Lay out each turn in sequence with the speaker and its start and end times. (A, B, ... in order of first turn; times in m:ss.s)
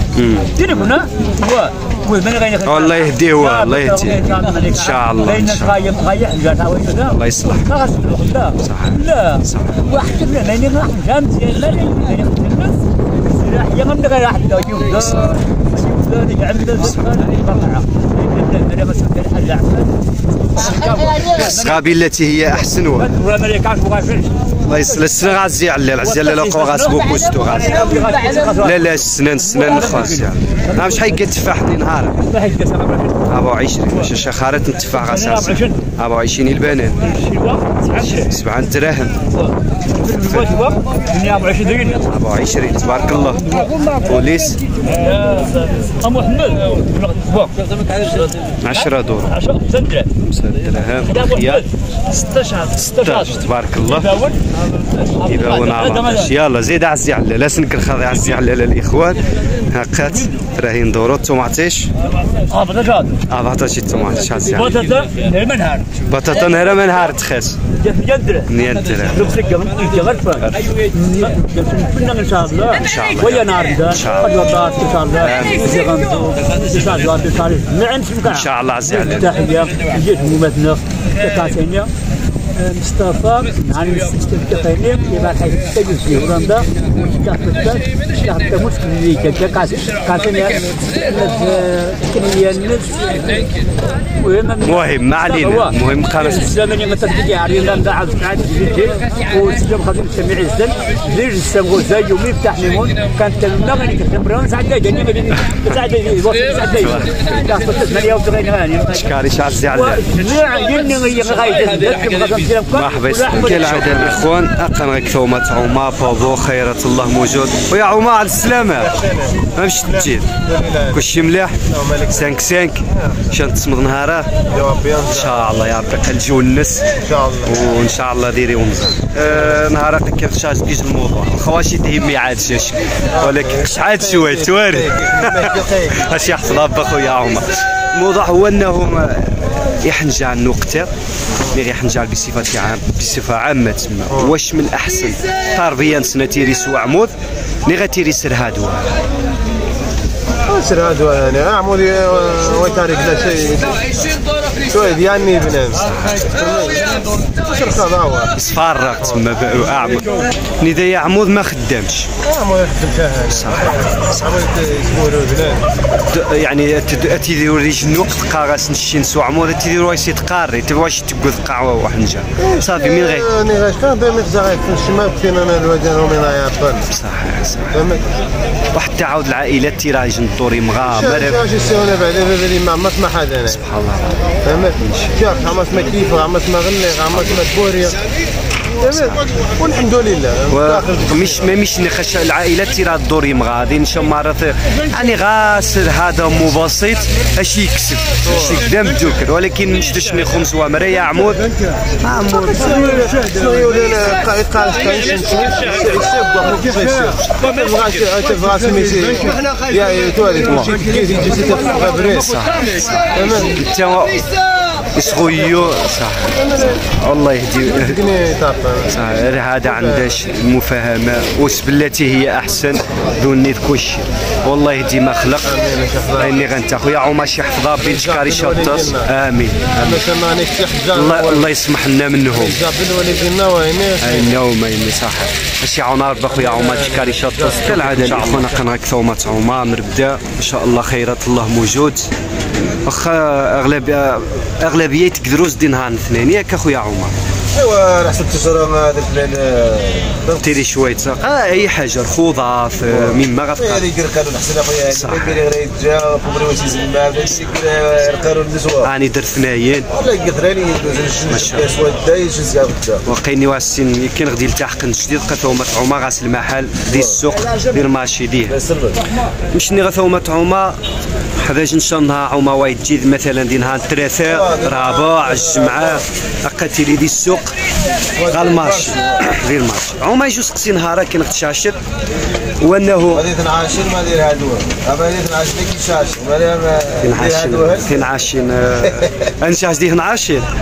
0:00.1-0:01.0 A
0:00.6-0:20.0 B
0:02.6-0:05.8 A
0:07.1-0:07.7 A
0:08.6-0:10.0 A
0:20.5-0:21.9 B
0:21.2-0:23.1 A
0:22.6-0:25.3 B
0:24.6-0:27.9 A
0:26.0-0:31.3 B
0:28.6-0:32.2 A
0:32.3-0:33.3 B
0:33.3-0:37.0 A
0:34.9-0:35.8 B
0:37.0-0:38.3 B
0:38.2-0:39.2 A
0:39.3-0:42.0 B
0:40.2-0:40.6 A
0:42.1-0:44.6 A
0:43.2-0:50.1 B
0:48.6-0:49.4 A
0:50.1-0:51.6 A
0:51.1-0:54.4 B
0:52.8-0:54.1 A
0:55.0-0:56.3 B
0:55.2-1:01.9 A
1:02.3-1:03.2 B
1:03.3-1:04.8 A
1:04.5-1:05.9 B
1:06.1-1:07.6 A
1:07.8-1:21.9 B
1:08.5-1:09.2 A
1:12.8-1:15.8 A
1:18.2-1:19.3 A
1:22.5-1:33.5 B
1:34.2-1:49.0 B
1:34.6-1:36.6 A
1:46.8-1:47.2 A
1:48.9-1:50.0 A
1:49.6-1:54.2 B
1:52.7-1:59.0 A
1:58.9-2:01.0 C
1:59.5-2:00.3 A
2:00.9-2:04.3 A
2:01.7-2:02.3 C
2:04.5-2:05.4 C
2:05.1-2:06.9 A
2:07.0-2:07.5 C
2:07.4-2:20.9 A
2:13.2-2:16.0 C
2:21.5-2:27.1 A
2:24.1-2:24.3 C
2:27.6-2:29.0 A
2:30.4-2:34.0 C
2:34.6-2:38.4 C
2:35.8-2:36.4 A
2:38.3-2:42.1 A
2:42.2-2:45.7 C
2:43.3-2:44.4 A
2:46.1-2:53.3 A
2:52.5-2:56.9 C
2:56.9-2:57.9 A
2:57.7-2:58.0 C
2:58.7-3:01.4 A
3:00.9-3:03.6 C
3:03.5-3:05.2 A
3:04.4-3:08.0 C
3:07.1-3:07.4 A
3:08.8-3:11.5 C
3:08.8-3:09.2 A
3:10.5-3:21.5 A
3:18.2-3:18.6 C
3:22.0-3:22.7 A
3:22.5-3:32.3 C
3:30.5-3:30.8 A
3:32.1-3:34.3 A
3:33.1-3:33.6 C
3:34.9-3:38.0 A
3:37.6-3:38.9 C
3:38.9-3:45.5 A
3:39.7-3:40.1 C
3:45.4-3:46.4 C
3:46.1-3:50.0 A
3:47.8-3:49.1 C
3:49.7-3:51.5 C
3:50.9-3:52.6 A
3:52.4-3:54.3 C
3:54.0-4:02.1 A
3:56.3-3:58.7 C
4:02.8-4:07.1 A
4:07.5-4:10.5 C
4:10.4-4:13.9 A
4:12.9-4:18.9 C
4:14.9-4:15.4 A
4:18.8-4:19.9 A
4:19.9-4:23.0 C
4:21.3-4:21.7 A
4:23.0-4:28.6 A
4:26.9-4:27.2 C
4:28.5-4:29.0 C
4:29.5-4:30.8 A
4:31.4-4:37.5 A
4:34.3-4:36.0 C
4:38.2-4:39.1 C
4:38.3-4:41.8 A
4:42.6-4:43.3 A
4:43.1-4:48.0 C
4:47.0-4:50.5 A